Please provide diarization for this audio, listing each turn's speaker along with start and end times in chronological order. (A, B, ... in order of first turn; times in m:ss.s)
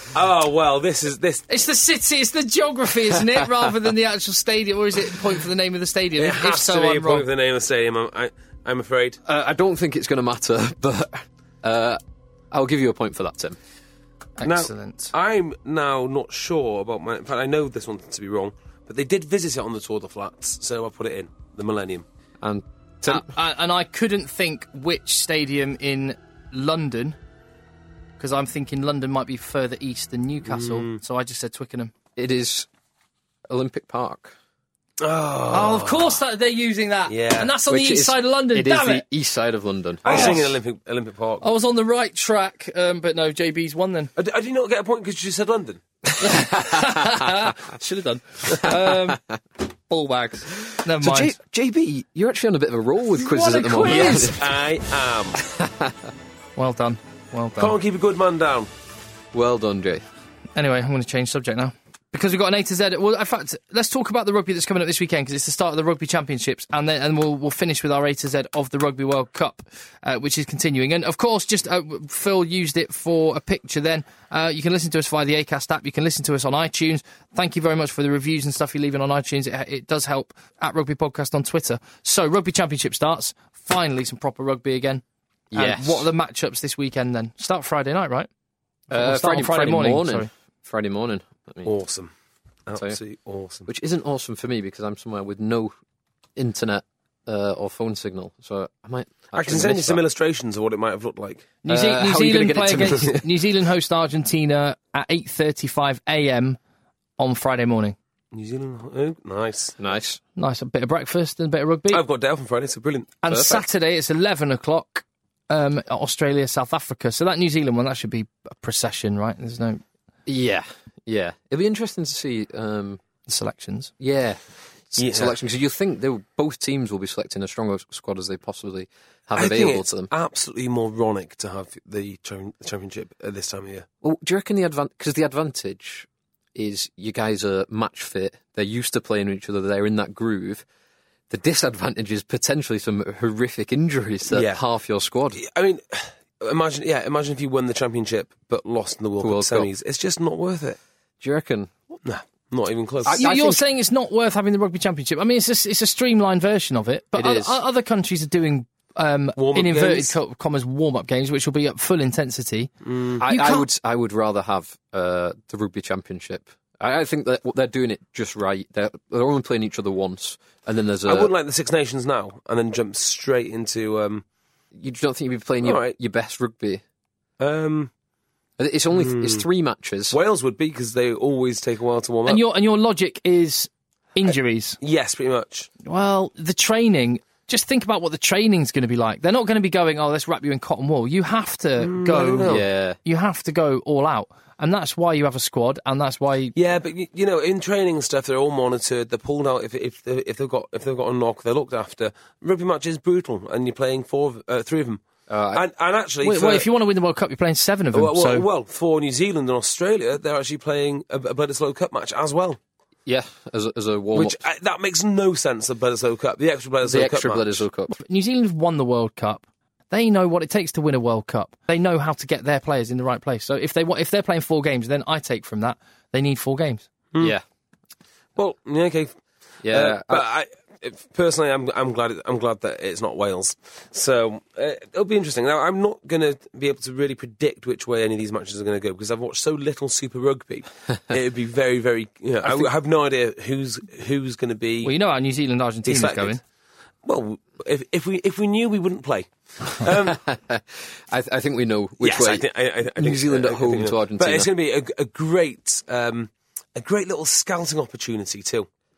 0:00.1-0:01.5 A
0:01.5-0:07.3 B
0:06.2-0:09.2 A
0:09.2-0:12.0 C
0:12.5-0:13.6 C
0:14.4-0:15.1 B
0:14.4-0:22.0 A
0:22.4-0:23.3 C
0:23.1-0:27.2 B
0:28.2-0:31.9 B
0:30.5-0:31.0 A
0:32.2-0:32.7 C
0:33.5-0:34.3 C
0:35.0-0:36.2 A
0:35.5-0:39.0 B
0:37.1-0:37.5 A
0:37.7-0:40.5 C
0:40.0-0:40.4 B
0:40.0-0:41.5 A
0:41.4-0:44.1 B
0:44.2-0:45.8 A
0:46.1-0:47.3 C
0:46.2-0:49.2 B
0:48.6-0:49.4 C
0:49.9-0:51.3 B
0:50.5-0:54.5 C
0:53.2-0:54.4 B
0:53.8-0:55.4 A
0:55.4-0:56.0 C
0:56.6-0:57.8 B
0:57.6-0:58.7 A
0:59.3-1:00.0 C
1:00.6-1:25.0 B
1:25.5-1:26.1 C
1:25.6-1:28.3 B
1:28.9-1:31.7 C
1:28.9-1:30.3 B
1:31.7-1:32.1 A
1:32.7-1:33.7 A
1:33.7-1:35.7 C
1:36.4-1:40.0 C
1:39.3-1:41.5 A
1:41.6-1:46.6 B
1:41.7-1:43.3 C
1:47.2-1:48.0 B
1:48.3-1:49.8 A
1:49.8-1:50.2 C
1:50.4-1:52.0 B
1:51.9-1:53.2 A
1:53.2-1:59.8 B
1:53.3-1:53.6 C
2:00.3-2:03.0 C
2:03.3-2:03.9 B
2:04.0-2:10.1 C
2:05.0-2:05.4 A
2:09.4-2:13.9 A
2:14.0-2:20.6 C
2:21.3-2:25.4 C
2:24.3-2:24.6 A
2:25.3-2:30.8 A
2:29.2-2:29.7 C
2:31.2-2:31.7 C
2:32.0-2:33.2 A
2:33.0-2:33.6 C
2:33.2-2:42.7 B
2:37.1-2:37.6 C
2:39.4-2:40.2 A
2:42.8-2:43.2 A
2:43.2-2:51.3 C
2:43.3-2:43.6 B
2:51.1-2:54.2 A
2:54.7-2:56.8 C
2:55.6-2:56.0 A
2:57.4-2:57.9 A
2:58.6-3:00.2 C
2:58.9-2:59.5 A
3:00.1-3:02.4 A
3:02.3-3:04.8 B
3:04.8-3:05.7 A
3:05.8-3:16.5 B
3:11.8-3:12.6 A
3:12.4-3:13.0 C
3:16.6-3:25.0 A
3:25.3-3:25.6 C
3:25.5-3:26.7 A
3:26.2-3:28.5 B
3:27.9-3:32.6 A
3:33.1-3:34.4 C
3:34.1-3:37.4 A
3:36.8-3:38.0 C
3:38.0-3:46.9 B
3:48.4-4:04.9 A
3:49.6-3:50.2 C
4:04.8-4:06.4 B
4:05.9-4:06.4 A
4:07.0-4:10.2 A
4:09.9-4:14.5 C
4:12.0-4:18.7 A